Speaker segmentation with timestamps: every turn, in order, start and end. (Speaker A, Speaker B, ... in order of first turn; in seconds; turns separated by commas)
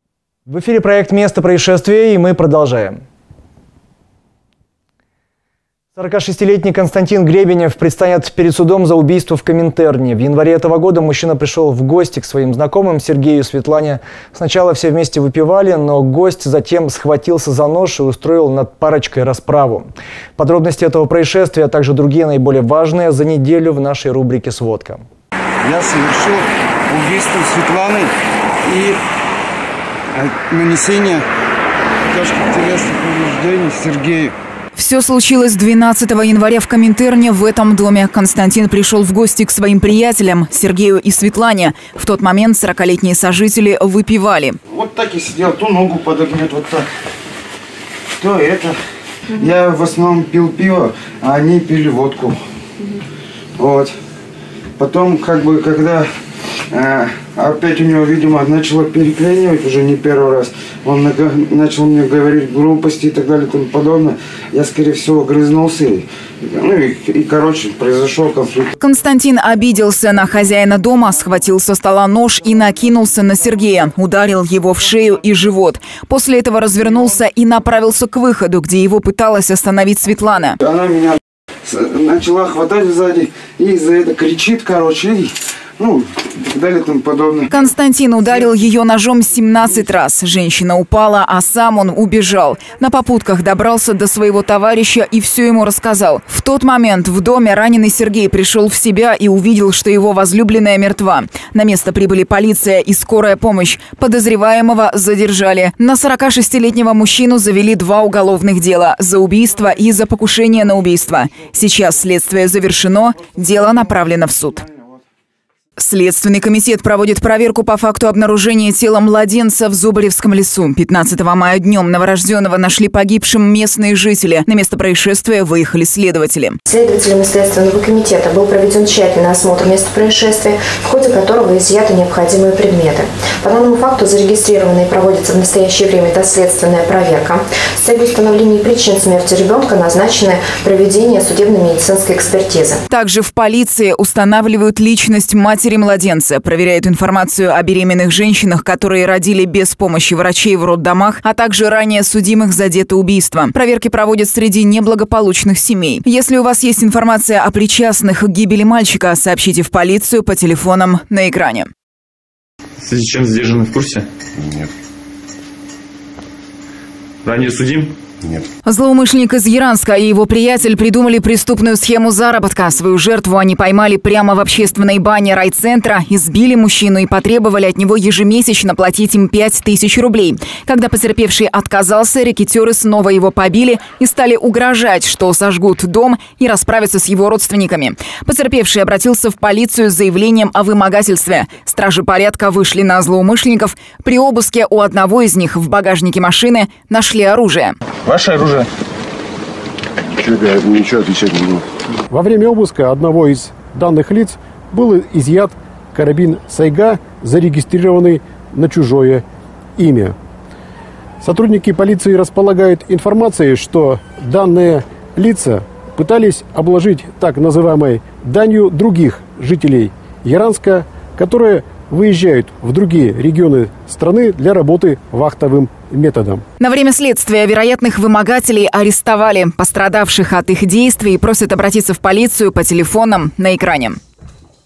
Speaker A: 0.5-3.0, Speaker A: 5.9-25.0, Speaker B: 25.6-28.1, Speaker B: 28.6-29.0, Speaker B: 30.1-31.2, Speaker B: 32.1-34.3, Speaker C: 34.7-44.6, Speaker B: 44.7-46.9, Speaker B: 48.2-48.8, Speaker B: 49.3-52.4, Speaker B: 53.6-54.0, Speaker B: 54.8-56.1, Speaker B: 56.7-68.7, Speaker C: 68.8-80.6, Speaker B: 80.6-87.5, Speaker C: 87.5-114.7, Speaker C: 115.8-126.6, Speaker D: 126.7-142.8, Speaker C: 142.9-161.7, Speaker E: 162.8-164.1, Speaker F: 164.3-164.7, Speaker E: 167.2-168.0, Speaker C: 168.6-197.8, Speaker E: 198.1-198.7, Speaker F: 200.1-201.7, Speaker G: 202.1-209.2, Speaker G: 209.8-210.2, Speaker G: 211.2-226.4, Speaker C: 226.6-234.0